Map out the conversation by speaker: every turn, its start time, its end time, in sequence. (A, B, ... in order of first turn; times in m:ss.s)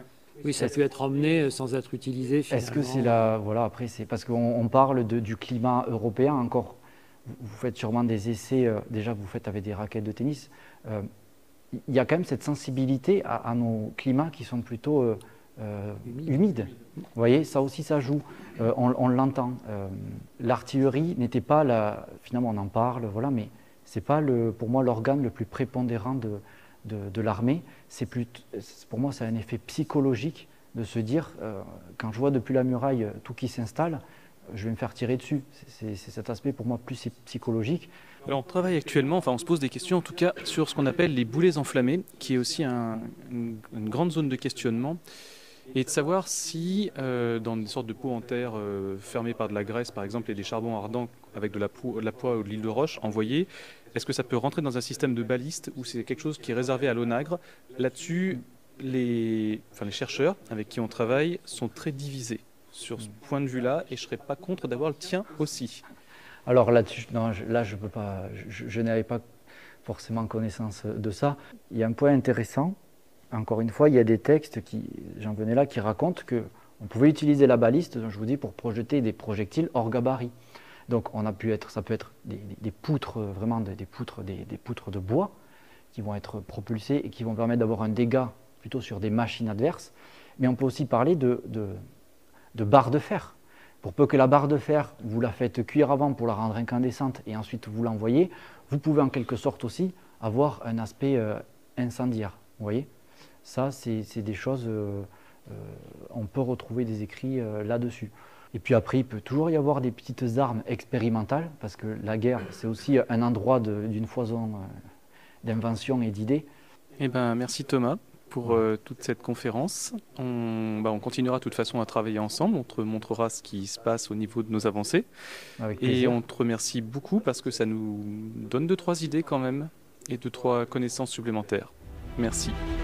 0:00.4-0:03.3 A
0:02.5-0:11.1 B
0:11.7-0:37.9 B
0:38.2-0:45.0 C
0:45.7-1:05.8 C
1:06.5-1:09.2 B
1:09.8-1:12.8 B
1:13.3-1:20.3 B
1:20.9-1:25.3 B
1:25.9-1:31.8 B
1:32.5-1:42.9 B
1:43.4-1:54.7 B
1:55.4-1:56.5 B
1:57.0-2:05.1 C
2:05.6-2:06.2 B
2:05.8-2:12.6 C